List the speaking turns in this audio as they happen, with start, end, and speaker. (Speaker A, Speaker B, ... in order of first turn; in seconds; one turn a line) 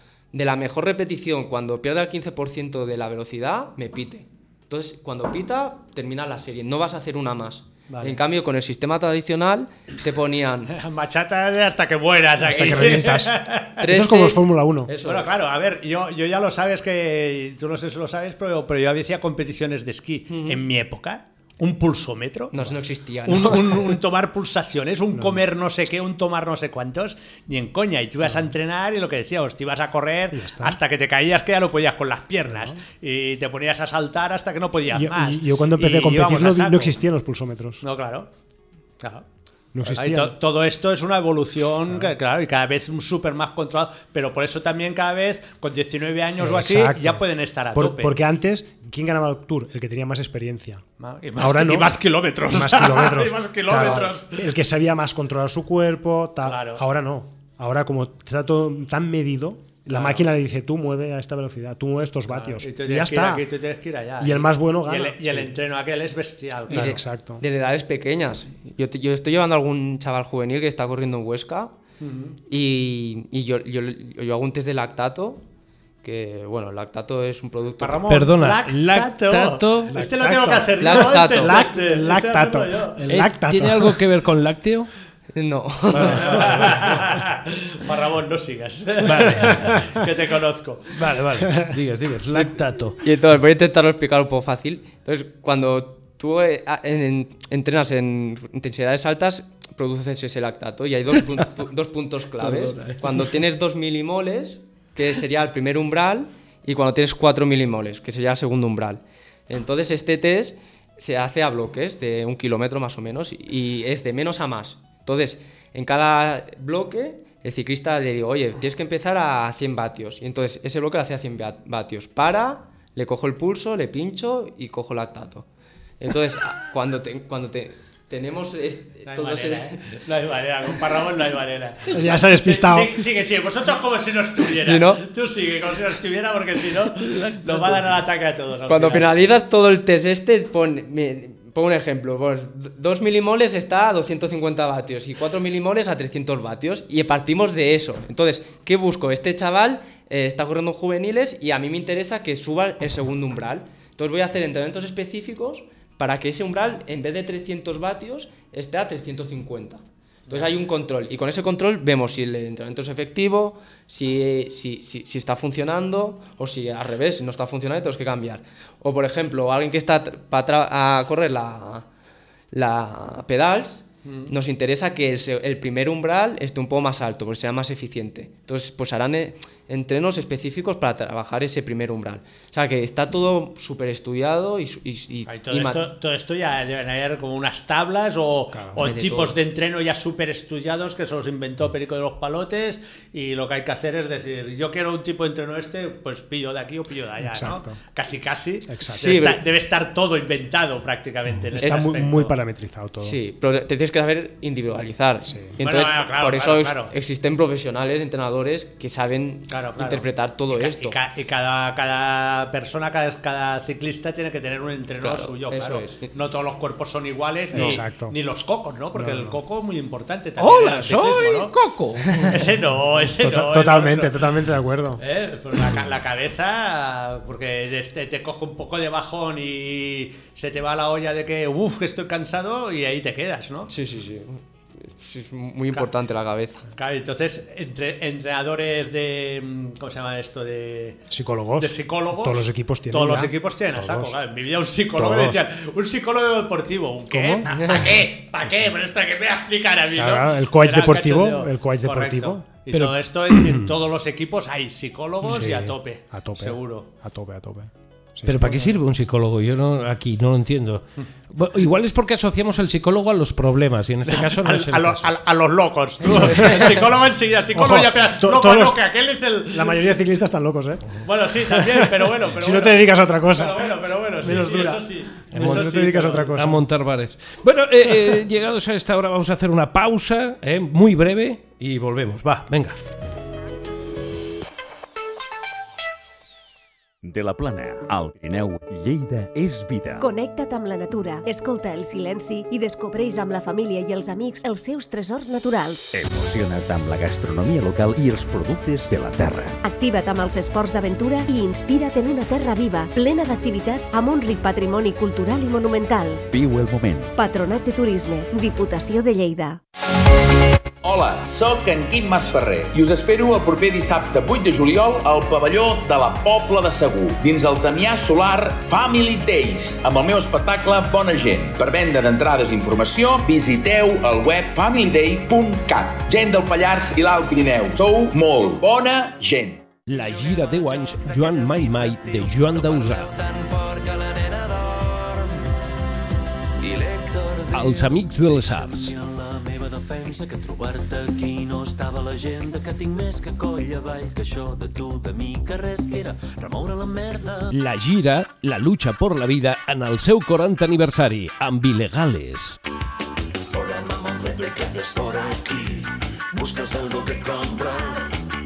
Speaker A: 0.3-10.7
Speaker B: 7.9-8.2
Speaker B: 10.7-13.8
Speaker C: 12.4-14.9
Speaker A: 12.4-13.1
Speaker A: 13.8-15.3
Speaker B: 15.0-37.0
Speaker A: 20.3-20.6
Speaker A: 22.5-23.9
Speaker C: 25.1-25.4
Speaker C: 28.2-28.5
Speaker C: 30.3-30.8
Speaker C: 32.5-32.8
Speaker C: 34.9-37.8
Speaker B: 37.8-38.3
Speaker B: 39.0-39.3
Speaker C: 39.7-40.4
Speaker B: 39.8-48.1
Speaker C: 41.9-42.1
Speaker C: 46.4-50.8
Speaker B: 51.0-54.4
Speaker C: 51.4-63.5
Speaker B: 56.4-56.8
Speaker B: 59.9-60.2
Speaker B: 62.3-67.0
Speaker C: 64.2-65.6
Speaker C: 66.7-67.4
Speaker A: 66.7-71.7
Speaker B: 72.0-72.4
Speaker A: 72.5-75.4
Speaker A: 76.0-78.0
Speaker B: 77.8-83.0
Speaker D: 78.1-80.0
Speaker C: 79.9-84.0
Speaker A: 80.8-81.6
Speaker D: 83.1-84.9
Speaker A: 85.3-86.5
Speaker D: 85.9-86.9
Speaker B: 86.0-91.0
Speaker D: 89.0-89.9
Speaker C: 89.4-89.9
Speaker D: 90.9-93.0
Speaker A: 93.0-125.5
Speaker D: 102.4-103.3
Speaker A: 126.0-130.0
Speaker B: 129.1-139.1
Speaker C: 131.9-133.1
Speaker A: 134.6-135.0
Speaker A: 138.7-171.9
Speaker A: 172.5-185.9
Speaker B: 174.1-174.3
Speaker B: 185.3-202.3
Speaker C: 188.5-188.9
Speaker A: 188.8-189.4
Speaker C: 197.2-197.8
Speaker C: 198.7-199.2
Speaker A: 199.0-199.4
Speaker C: 201.5-203.2
Speaker A: 201.6-202.1
Speaker A: 203.0-211.0
Speaker C: 205.3-205.6
Speaker B: 205.6-206.9
Speaker B: 209.5-221.5
Speaker A: 215.0-216.1
Speaker C: 217.5-218.2
Speaker C: 218.9-219.4
Speaker D: 220.4-222.4
Speaker B: 222.3-224.2
Speaker C: 223.1-225.0
Speaker B: 225.0-233.7
Speaker A: 233.7-236.7
Speaker B: 236.7-241.0
Speaker C: 241.1-244.2
Speaker B: 241.6-256.9
Speaker C: 244.9-245.4
Speaker C: 247.1-247.5
Speaker A: 247.5-247.9
Speaker C: 249.9-252.4
Speaker D: 252.7-253.7
Speaker C: 255.2-258.8
Speaker D: 258.3-265.1
Speaker B: 264.1-269.9
Speaker C: 266.0-266.9
Speaker C: 267.5-268.8
Speaker C: 269.5-276.6
Speaker B: 271.0-276.4
Speaker D: 275.3-275.7
Speaker D: 276.4-282.9
Speaker E: 287.0-290.1
Speaker F: 290.0-295.9
Speaker E: 295.9-299.6
Speaker F: 299.6-306.2
Speaker E: 306.3-307.1
Speaker F: 307.2-309.6
Speaker G: 310.8-329.7
Speaker D: 329.9-333.1
Speaker H: 329.9-335.4
Speaker H: 336.6-347.5
Speaker D: 337.5-338.9
Speaker D: 347.5-352.6
Speaker H: 353.5-358.1